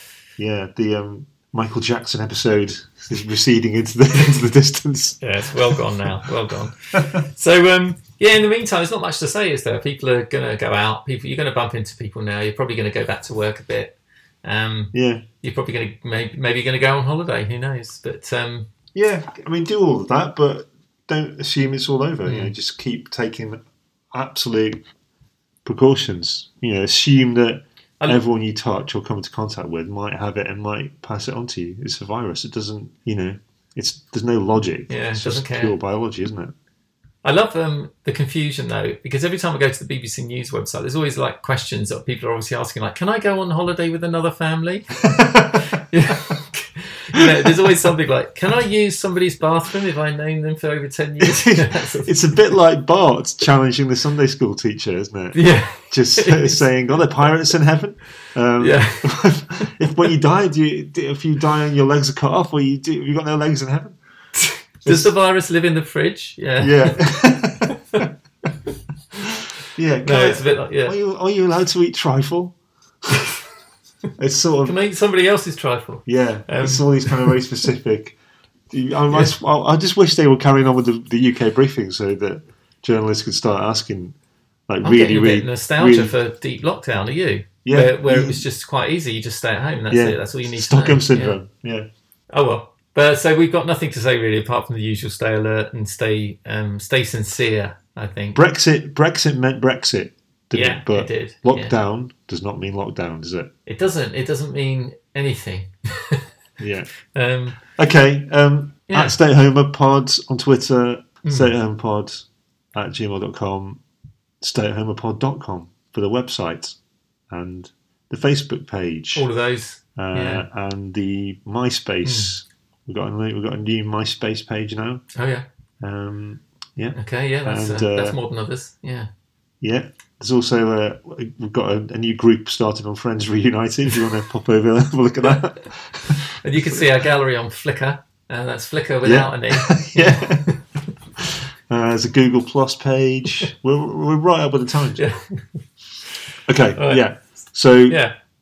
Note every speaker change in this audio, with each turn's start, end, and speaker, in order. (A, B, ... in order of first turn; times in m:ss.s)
0:00.4-0:05.8 A
0:05.2-0:18.7 B
0:14.9-0:15.2 A
0:18.9-0:23.6 A
0:22.2-0:22.5 B
0:24.1-0:24.8 A
0:25.6-0:36.5 A
0:34.9-0:35.8 B
0:37.2-0:45.1 B
0:45.1-0:45.8 A
0:45.7-0:52.1 B
0:47.1-0:47.6 A
0:51.2-1:04.0 A
0:55.3-0:57.3 B
0:58.6-0:59.6 B
1:04.4-1:07.0 B
1:04.8-1:05.1 A
1:06.6-1:08.1 A
1:07.7-1:08.0 B
1:09.3-1:12.6 A
1:10.0-1:10.9 B
1:14.2-1:14.8 A
1:14.6-1:17.4 B
1:16.1-1:18.2 A
1:18.7-1:24.1 A
1:24.7-1:26.1 A
1:24.8-1:31.4 B
1:27.6-1:28.4 A
1:29.9-1:31.9 A
1:32.3-1:38.4 B
1:38.3-1:43.5 A
1:40.5-1:41.7 B
1:43.6-1:46.3 B
1:46.6-1:46.9 A
1:47.0-1:47.6 B
1:47.7-1:53.8 A
1:48.9-1:49.1 B
1:51.3-1:51.5 B
1:54.4-1:56.8 A
1:57.3-1:59.3 A
1:59.1-2:00.4 B
2:00.0-2:05.0 A
2:02.0-2:02.3 B
2:05.1-2:05.5 B
2:05.8-2:08.2 A
2:06.9-2:09.1 B
2:09.6-2:16.9 A
2:16.4-2:20.6 B
2:19.0-2:20.6 A
2:21.2-2:25.0 A
2:25.0-2:25.4 B
2:26.4-2:28.0 A
2:26.8-2:27.0 B
2:27.9-2:28.1 B